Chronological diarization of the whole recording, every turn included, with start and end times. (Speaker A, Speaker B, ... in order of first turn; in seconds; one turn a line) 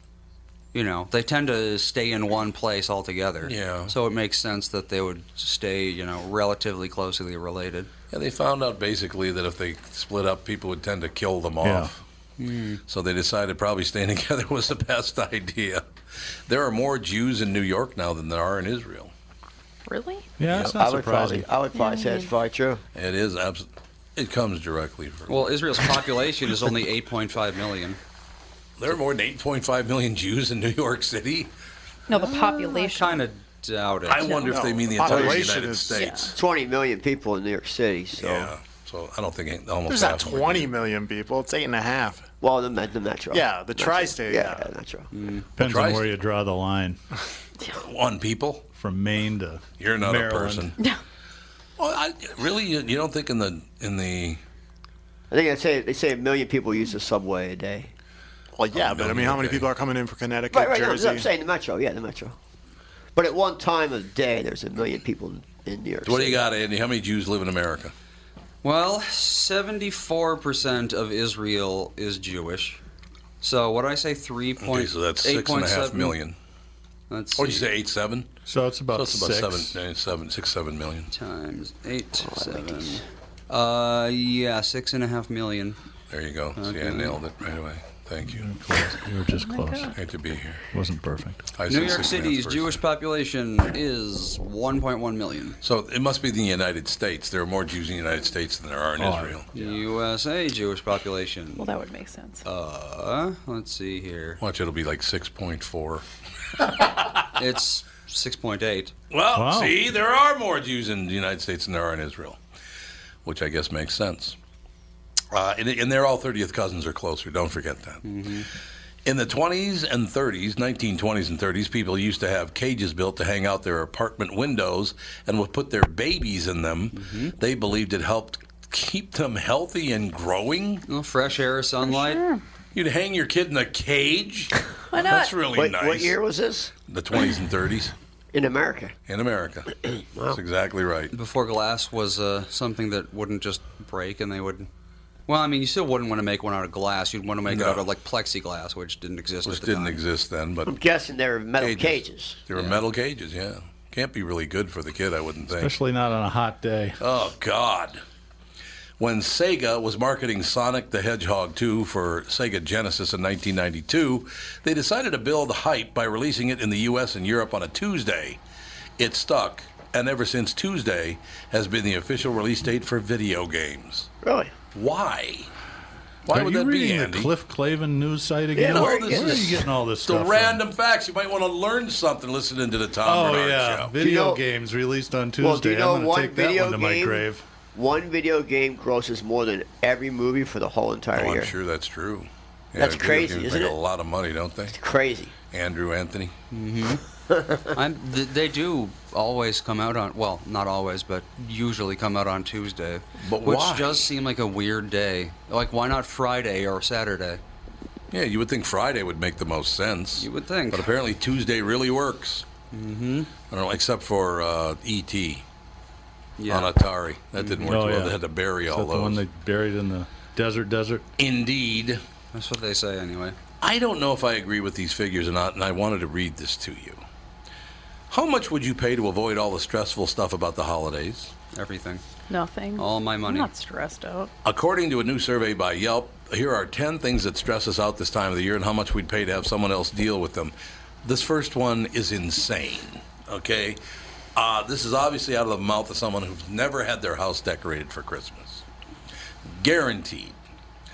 Speaker A: 0.7-7.9
Speaker B: 3.4-3.9
Speaker B: 8.1-12.0
Speaker C: 11.6-11.9
Speaker A: 12.4-12.8
Speaker B: 12.9-15.8
Speaker B: 16.5-19.1
Speaker D: 19.9-20.3
Speaker C: 20.4-21.5
Speaker B: 20.5-20.8
Speaker E: 20.7-22.8
Speaker D: 21.7-22.3
Speaker B: 22.9-25.5
Speaker A: 25.3-28.0
Speaker B: 28.8-31.5
Speaker D: 32.1-33.2
Speaker A: 32.1-34.3
Speaker B: 34.1-36.4
Speaker F: 34.4-36.1
Speaker E: 35.0-35.5
Speaker D: 35.9-36.3
Speaker E: 36.3-38.5
Speaker B: 38.2-40.7
Speaker F: 39.9-42.3
Speaker E: 42.4-45.1
Speaker F: 43.3-44.7
Speaker A: 45.1-45.5
Speaker B: 45.6-46.1
Speaker C: 45.6-47.0
Speaker B: 47.7-48.6
Speaker C: 48.8-50.7
Speaker B: 49.8-50.8
Speaker B: 51.8-54.4
Speaker E: 55.3-57.9
Speaker F: 58.6-61.3
Speaker B: 58.7-59.7
Speaker E: 60.5-62.4
Speaker E: 63.1-66.4
Speaker B: 66.0-67.9
Speaker A: 68.6-72.8
Speaker A: 73.4-76.2
Speaker B: 74.6-76.4
Speaker A: 77.1-77.7
Speaker B: 77.4-78.3
Speaker C: 78.5-79.8
Speaker B: 78.9-81.1
Speaker A: 81.1-85.8
Speaker E: 82.2-83.0
Speaker B: 86.1-88.5
Speaker A: 86.6-87.2
Speaker C: 88.3-90.0
Speaker D: 89.4-89.9
Speaker B: 89.9-90.6
Speaker C: 90.7-91.5
Speaker B: 91.5-92.8
Speaker A: 91.7-95.6
Speaker B: 95.6-99.5
Speaker C: 99.0-99.4
Speaker A: 99.5-101.7
Speaker D: 101.6-102.4
Speaker A: 102.5-104.4
Speaker B: 104.4-106.0
Speaker B: 106.6-107.2
Speaker A: 107.3-108.9
Speaker B: 109.1-112.4
Speaker C: 109.3-109.8
Speaker B: 113.2-114.4
Speaker B: 115.3-118.0
Speaker A: 118.0-118.5
Speaker B: 119.0-130.8
Speaker A: 126.9-127.3
Speaker A: 130.9-132.2
Speaker D: 131.9-132.4
Speaker B: 132.7-136.2
Speaker D: 134.9-135.3
Speaker E: 135.5-136.7
Speaker B: 136.9-137.9
Speaker E: 138.3-138.9
Speaker B: 139.1-141.1
Speaker E: 140.0-140.4
Speaker A: 141.1-144.7
Speaker A: 145.3-150.0
Speaker B: 147.5-147.8
Speaker B: 149.4-150.7
Speaker E: 150.7-152.4
Speaker B: 151.6-155.8
Speaker A: 152.5-152.8
Speaker C: 155.6-157.0
Speaker B: 157.0-158.0
Speaker B: 159.0-168.4
Speaker B: 169.0-174.1
Speaker E: 174.2-174.5
Speaker B: 174.7-175.5
Speaker B: 176.3-177.3
Speaker C: 176.3-180.6
Speaker E: 178.5-179.6
Speaker B: 178.6-183.9
Speaker C: 183.0-187.4
Speaker E: 183.9-184.4
Speaker E: 185.4-191.5
Speaker B: 191.1-194.8
Speaker E: 192.8-193.8
Speaker E: 194.7-195.3
Speaker B: 195.5-196.3
Speaker A: 196.5-197.0
Speaker E: 197.3-197.8
Speaker A: 197.7-207.4
Speaker B: 203.2-204.1
Speaker B: 208.1-212.5
Speaker A: 210.2-210.9
Speaker A: 212.7-213.3
Speaker B: 213.5-215.4
Speaker A: 216.4-216.8
Speaker B: 216.5-219.2
Speaker A: 217.4-217.8
Speaker C: 217.7-221.1
Speaker B: 221.2-222.0
Speaker A: 222.3-223.4
Speaker B: 223.6-227.0
Speaker B: 228.1-231.3
Speaker A: 231.5-232.0
Speaker D: 232.3-234.3
Speaker A: 232.8-233.5
Speaker B: 234.4-243.8
Speaker B: 244.4-248.7
Speaker B: 249.4-250.4